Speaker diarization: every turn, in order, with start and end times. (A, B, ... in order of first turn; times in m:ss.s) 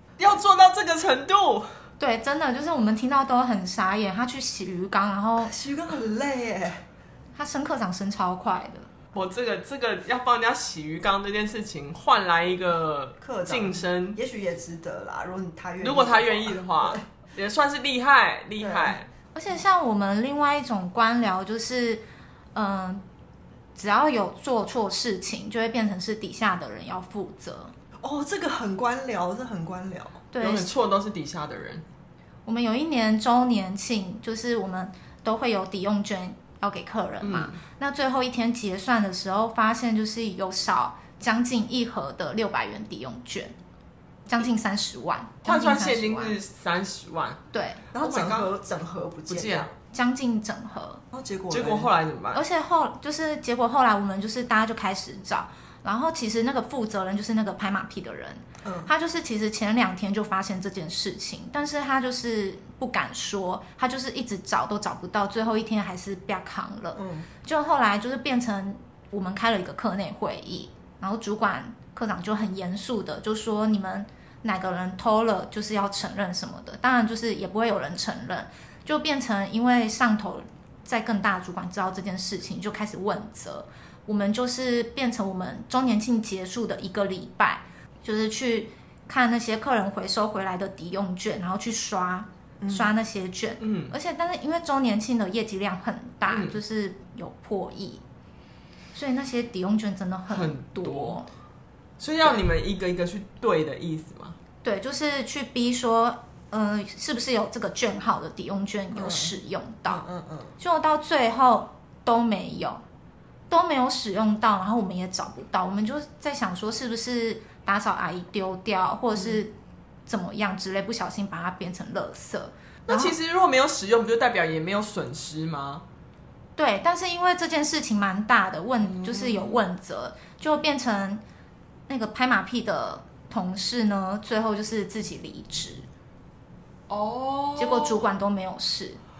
0:00.2-0:01.7 A
0:02.0-0:05.5 B
0:05.4-0:06.8 C
0:07.4-0:08.9 B
0:09.1-0:14.2 A
0:13.2-0:17.0 C
0:15.8-0:19.1 A
0:18.6-0:19.0 C
0:19.3-0:23.0 B
0:23.8-0:27.7 B
0:28.0-0:30.2 C
0:30.3-0:30.7 B
0:30.4-0:31.8 A
0:32.4-0:43.5 B
0:37.2-0:37.6 A
0:44.3-0:46.4 B
0:45.4-0:47.4 A
0:47.5-0:47.8 B
0:47.9-0:49.7 C
0:48.0-0:48.5 A
0:49.3-0:49.7 A
0:49.9-0:51.0 B
0:51.1-0:51.9 C
0:51.5-0:52.4 A
0:52.3-1:38.0 B
0:58.6-0:58.9 C
1:06.9-1:07.3 C
1:32.6-1:32.9 C
1:33.6-1:33.9 A
1:36.3-1:36.6 A
1:38.9-1:41.3 B
1:40.3-1:41.2 A
1:42.0-1:44.4 A
1:44.6-1:50.0 B
1:49.0-1:49.4 C
1:49.9-1:50.5 C
1:50.6-1:52.8 B
1:53.5-1:59.5 B
1:59.1-1:59.4 C
2:00.1-2:03.1 B
2:02.9-2:05.8 A
2:06.6-2:11.2 B
2:08.8-2:09.6 A
2:11.9-2:15.8 B
2:16.9-2:18.1 A
2:17.6-2:19.0 B